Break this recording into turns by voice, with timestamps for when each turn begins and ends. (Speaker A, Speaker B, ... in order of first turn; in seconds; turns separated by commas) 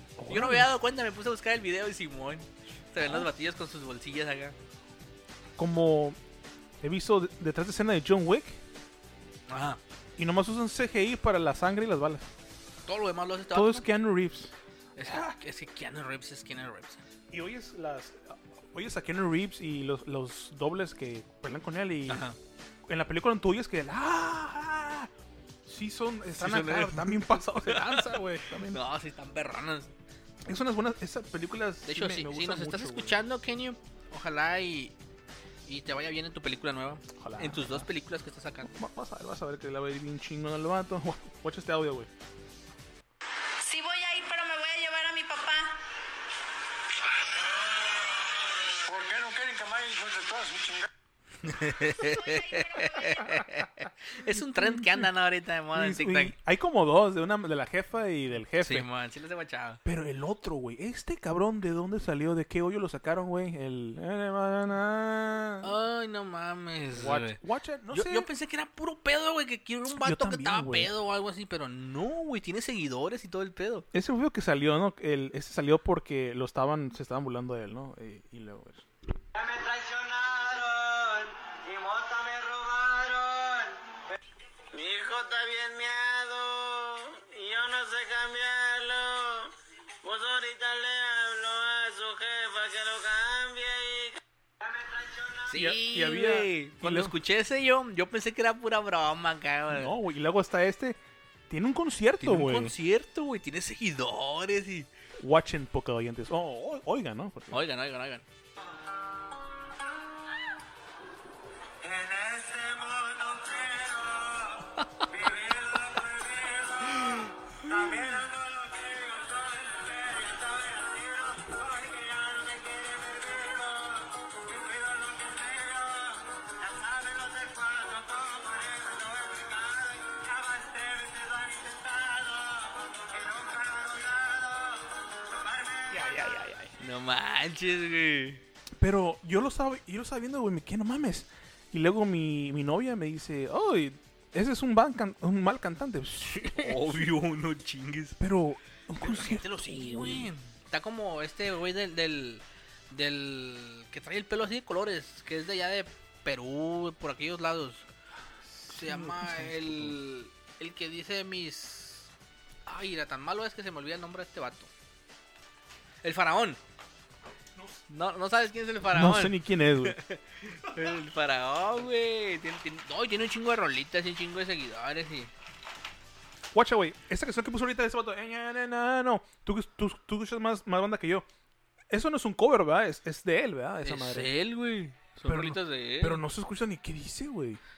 Speaker A: 0.2-0.7, Speaker B: 0.3-4.6, Speaker A: 3.0-3.3, Speaker A: 5.6-6.2, Speaker A: 6.8-8.6, Speaker B: 9.5-9.8, Speaker A: 10.2-12.3, Speaker B: 12.9-13.9, Speaker A: 13.5-15.3, Speaker B: 15.0-17.0, Speaker A: 17.3-22.3, Speaker B: 22.1-22.4, Speaker A: 22.9-25.1, Speaker A: 25.6-28.8, Speaker B: 26.4-29.9, Speaker A: 30.5-33.2, Speaker B: 31.9-34.9, Speaker B: 35.7-38.7, Speaker A: 37.1-37.9, Speaker A: 38.6-42.1, Speaker C: 43.6-45.8, Speaker D: 48.9-50.9, Speaker B: 51.4-56.4, Speaker C: 52.0-53.4, Speaker A: 54.5-55.1, Speaker A: 55.7-58.9, Speaker B: 58.6-59.8, Speaker A: 59.9-65.7, Speaker B: 65.6-67.4, Speaker A: 66.9-68.3, Speaker B: 67.9-73.9, Speaker A: 70.0-70.9, Speaker A: 73.9-78.9, Speaker E: 79.3-83.8, Speaker E: 84.7-95.5, Speaker B: 95.5-100.0, Speaker A: 95.5-97.2, Speaker A: 99.7-102.7, Speaker B: 102.2-104.9, Speaker A: 105.2-107.6, Speaker B: 107.5-108.2, Speaker E: 111.8-136.2, Speaker A: 135.9-136.7, Speaker B: 136.8-138.4, Speaker A: 138.8-147.1, Speaker B: 146.4-148.2, Speaker A: 148.2-150.3, Speaker B: 149.0-157.9, Speaker A: 158.4-160.0, Speaker B: 158.7-162.1, Speaker B: 162.7-164.7, Speaker B: 166.0-166.6, Speaker A: 167.6-167.8, Speaker B: 167.9-175.3, Speaker A: 168.9-170.0, Speaker A: 176.5-181.3, Speaker A: 181.9-184.3, Speaker B: 183.8-186.2, Speaker A: 185.2-187.6